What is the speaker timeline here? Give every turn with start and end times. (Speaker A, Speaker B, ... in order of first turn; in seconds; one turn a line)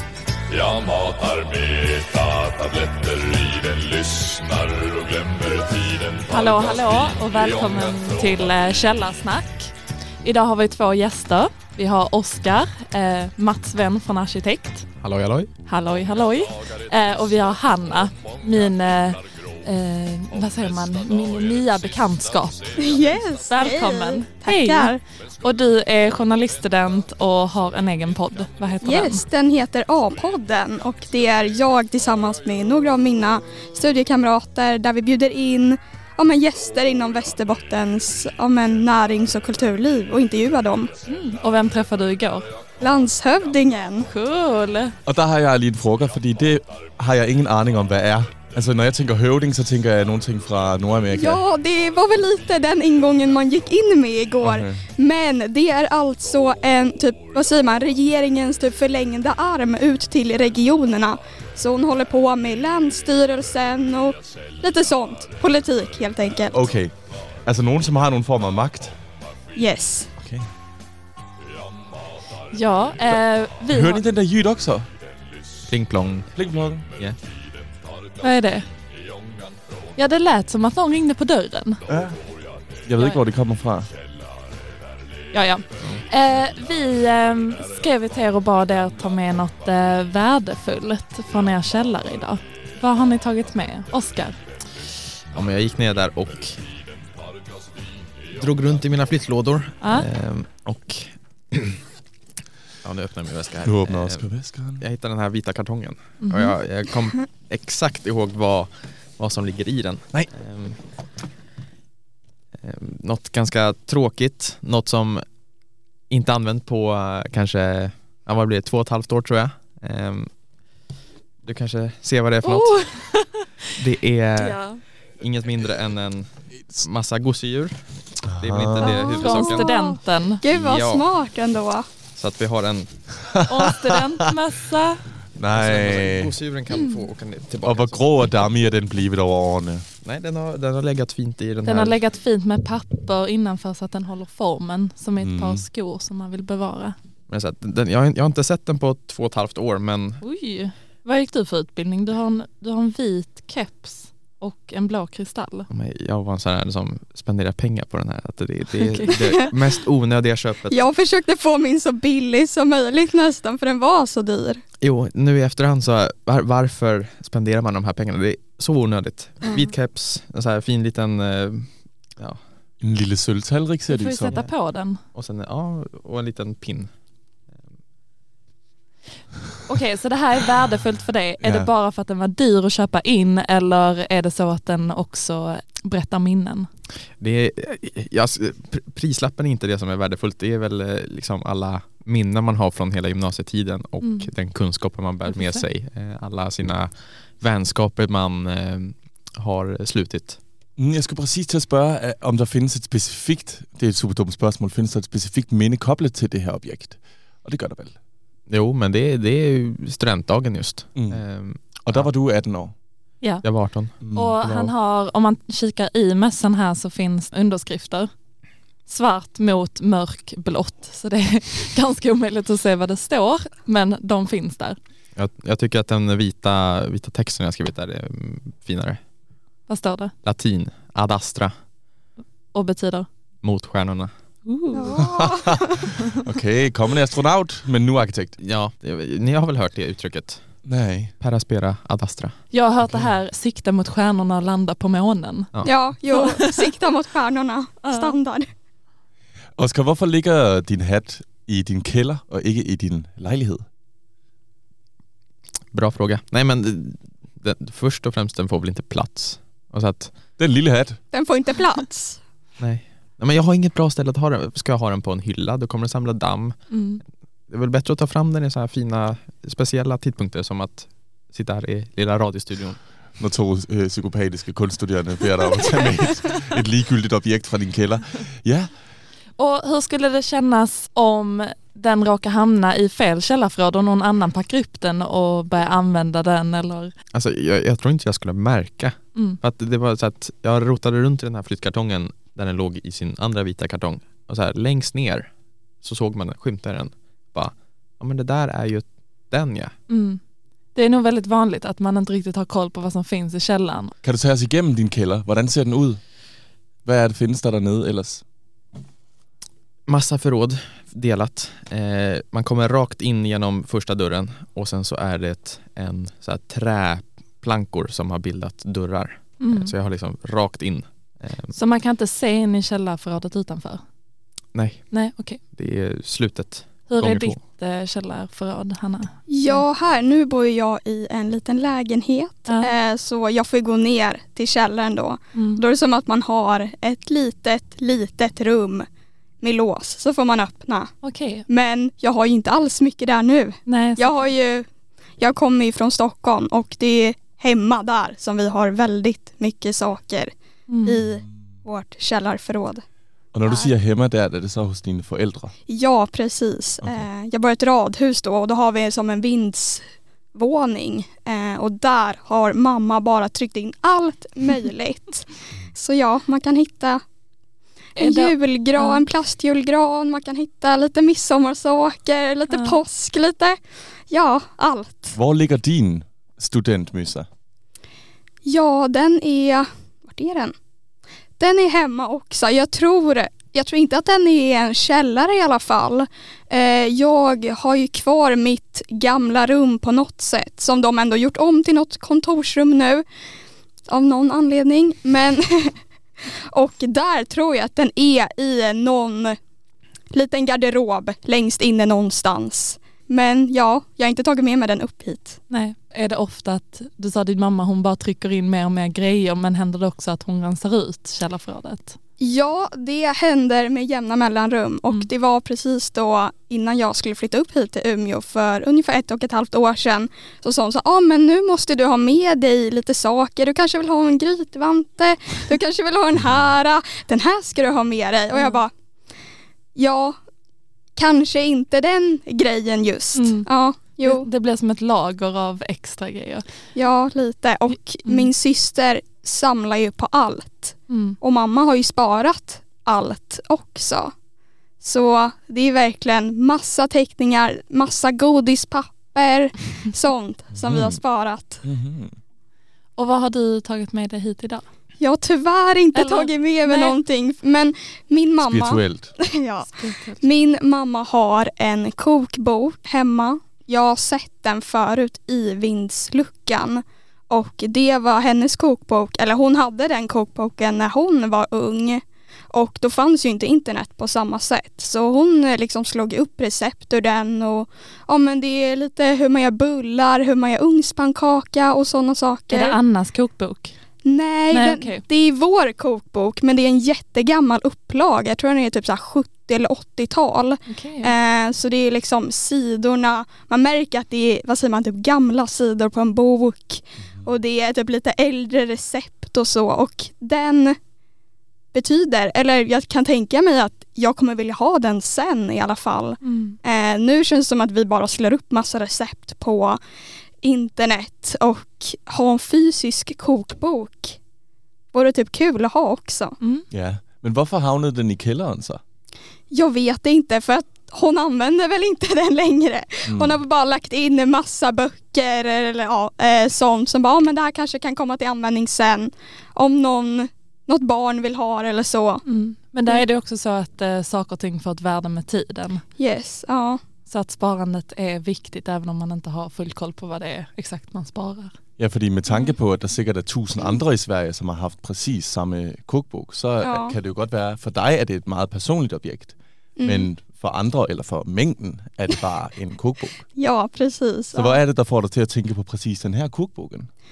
Speaker A: 0.5-6.2
Speaker B: 6.2-9.7
Speaker B: 10.2-14.9
Speaker C: 15.0-15.5
Speaker B: 15.7-22.8
Speaker D: 22.8-25.0
Speaker B: 23.4-29.2
Speaker D: 28.8-40.9
Speaker B: 41.0-42.5
Speaker D: 42.8-44.1
Speaker B: 44.1-45.0
Speaker E: 45.0-51.4
Speaker D: 51.1-66.7
Speaker E: 54.4-54.8
Speaker E: 66.5-68.9
Speaker D: 69.5-70.1
Speaker E: 70.2-70.5
Speaker B: 72.5-74.0
Speaker E: 73.7-74.9
Speaker C: 75.7-76.3
Speaker E: 76.3-76.9
Speaker B: 78.2-78.7
Speaker B: 80.0-81.8
Speaker E: 81.9-82.2
Speaker E: 82.9-83.9
Speaker B: 85.3-94.4
Speaker C: 95.3-96.6
Speaker C: 98.3-101.8
Speaker B: 99.8-100.1
Speaker C: 102.8-104.3
Speaker E: 103.6-104.8
Speaker C: 104.8-110.8
Speaker B: 106.2-106.6
Speaker C: 112.6-115.2
Speaker C: 116.1-120.3
Speaker C: 121.4-122.9
Speaker B: 122.4-123.5
Speaker C: 123.7-124.6
Speaker B: 124.4-124.8
Speaker C: 125.2-127.7
Speaker E: 128.2-128.9
Speaker C: 128.4-129.7
Speaker B: 128.8-130.4
Speaker D: 129.1-131.9
Speaker C: 130.4-131.1
Speaker C: 132.1-132.9
Speaker E: 133.2-134.0
Speaker B: 133.4-135.0
Speaker E: 135.4-136.3
Speaker C: 135.5-138.0
Speaker E: 137.6-139.8
Speaker C: 140.0-142.0
Speaker B: 141.6-146.9
Speaker E: 145.2-145.6
Speaker C: 147.3-150.2
Speaker B: 150.2-155.7
Speaker C: 155.7-160.8
Speaker B: 158.7-159.4
Speaker D: 159.1-159.5
Speaker D: 160.7-164.6
Speaker C: 164.8-172.4
Speaker E: 172.8-174.3
Speaker B: 173.9-175.0
Speaker C: 175.1-176.9
Speaker B: 179.7-186.7
Speaker E: 181.4-181.7
Speaker C: 187.2-200.4
Speaker B: 194.0-194.3
Speaker B: 195.3-195.7
Speaker E: 200.8-207.9
Speaker C: 208.5-212.1
Speaker E: 210.9-211.2
Speaker E: 211.8-212.7
Speaker C: 213.4-214.7
Speaker E: 214.0-214.4
Speaker B: 214.1-218.1
Speaker B: 218.9-224.8
Speaker C: 225.2-229.0
Speaker B: 229.7-230.1
Speaker C: 230.2-231.5
Speaker B: 232.5-233.1
Speaker C: 233.4-234.1
Speaker B: 234.4-235.0
Speaker D: 234.7-235.9
Speaker E: 235.0-238.4
Speaker C: 238.4-240.4
Speaker E: 240.7-241.1
Speaker C: 241.2-242.3
Speaker B: 242.5-245.5
Speaker D: 245.6-248.5
Speaker B: 246.1-246.7
Speaker B: 247.8-248.2
Speaker E: 249.6-253.6
Speaker C: 255.7-260.1
Speaker E: 260.4-261.0
Speaker D: 261.1-262.2
Speaker C: 262.6-266.6
Speaker B: 266.7-267.0
Speaker C: 267.5-272.8
Speaker E: 273.2-278.7
Speaker B: 279.4-286.9
Speaker C: 287.1-295.3
Speaker C: 295.8-299.7
Speaker B: 299.9-300.2
Speaker B: 300.8-303.9
Speaker E: 304.0-306.0
Speaker E: 306.8-308.2
Speaker C: 309.9-321.5
Speaker B: 319.4-319.7
Speaker B: 321.5-323.8
Speaker C: 324.5-324.8
Speaker B: 324.9-325.4
Speaker C: 325.5-327.4
Speaker B: 326.9-329.6
Speaker D: 329.3-338.9
Speaker B: 332.5-332.7
Speaker B: 335.3-335.6
Speaker D: 339.4-340.9
Speaker B: 341.0-341.4
Speaker D: 341.5-344.7
Speaker B: 343.7-344.2
Speaker D: 345.2-350.3
Speaker B: 350.7-351.0
Speaker D: 350.8-352.8
Speaker E: 353.3-355.5
Speaker D: 353.5-353.7
Speaker D: 355.7-367.0
Speaker D: 367.9-375.1
Speaker B: 368.0-369.0
Speaker B: 372.5-372.8
Speaker E: 375.1-377.3
Speaker D: 378.4-380.6
Speaker D: 381.4-393.1
Speaker D: 393.9-399.4
Speaker D: 400.1-405.4
Speaker B: 405.5-412.0
Speaker D: 412.2-428.7
Speaker B: 428.3-428.6
Speaker D: 429.8-430.2
Speaker D: 430.9-434.3
Speaker B: 433.1-433.5
Speaker B: 434.0-436.4
Speaker D: 436.8-444.1
Speaker B: 438.1-438.3
Speaker B: 440.9-441.2
Speaker D: 444.8-451.6
Speaker E: 450.6-451.0
Speaker E: 451.6-452.1
Speaker B: 453.0-454.6
Speaker D: 455.0-482.8
Speaker B: 455.9-456.9
Speaker E: 458.4-459.1
Speaker B: 459.7-460.2
Speaker B: 482.5-483.8
Speaker D: 484.0-500.8
Speaker B: 484.5-485.0
Speaker B: 490.6-491.1
Speaker D: 501.7-509.8
Speaker B: 506.2-506.6
Speaker D: 510.4-514.2
Speaker D: 514.9-516.4
Speaker E: 516.7-518.8
Speaker D: 519.5-532.2
Speaker E: 523.1-523.4
Speaker B: 532.2-535.8
Speaker D: 536.0-536.8
Speaker B: 537.1-541.5
Speaker E: 541.8-553.2
Speaker D: 546.6-547.0
Speaker D: 549.8-550.1
Speaker D: 553.4-554.6
Speaker E: 554.3-556.9